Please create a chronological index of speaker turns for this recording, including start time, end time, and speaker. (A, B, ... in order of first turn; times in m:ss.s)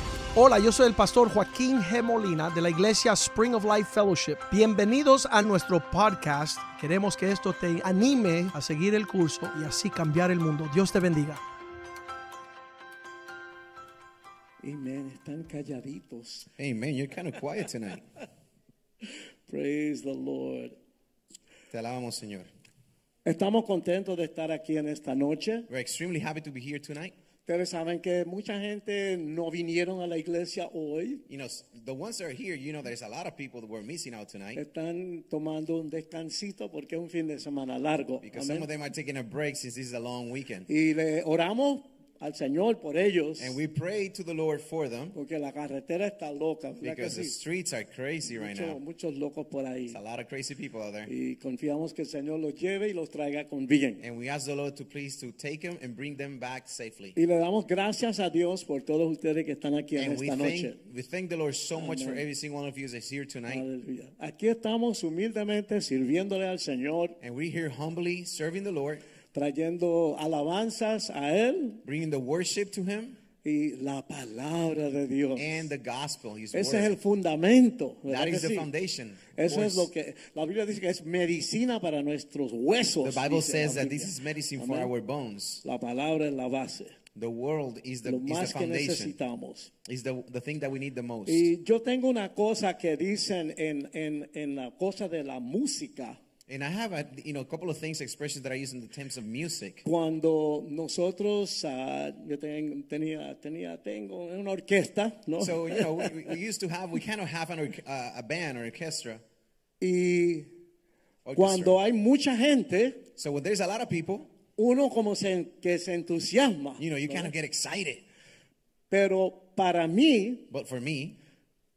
0:00.3-0:11.4 A
0:14.6-0:16.5 B
0:16.6-0:18.0 C
0:19.5-0:20.7 B
0:21.7-0:22.5 C
0:23.2-0:25.7 B
0:25.7-0:27.1 C
0:27.4-0:31.2 B
0:31.3-0:34.6 C
0:34.5-0:38.6 B
0:38.2-0:40.7 C
0:40.7-0:43.6 B
0:43.4-0:45.1 C
0:45.1-0:47.3 B
0:46.8-0:48.8 C
0:48.3-0:50.0 B
0:49.9-0:51.1 C
0:51.1-0:54.0 B
0:54.0-0:57.2 C
0:57.1-1:00.8 B
1:00.0-1:03.6 C
1:01.8-1:02.2 B
1:03.5-1:07.1 B
1:07.2-1:09.0 C
1:09.3-1:11.8 B
1:11.8-1:13.2 C
1:13.4-1:15.6 B
1:15.4-1:17.0 C
1:16.5-1:18.7 B
1:18.1-1:19.9 C
1:19.4-1:24.9 B
1:23.0-1:25.6 C
1:25.6-1:26.9 B
1:27.1-1:29.1 C
1:28.0-1:29.7 B
1:29.8-1:31.5 C
1:31.2-1:36.2 B
1:36.5-1:39.8 C
1:39.8-1:46.1 B
1:45.4-1:49.2 C
1:49.8-1:50.5 B
1:51.2-1:51.8 C
1:51.4-1:53.0 B
1:53.2-1:54.3 C
1:54.6-1:57.3 B
1:56.8-1:58.0 C
1:58.9-2:00.5 B
2:00.5-2:01.2 C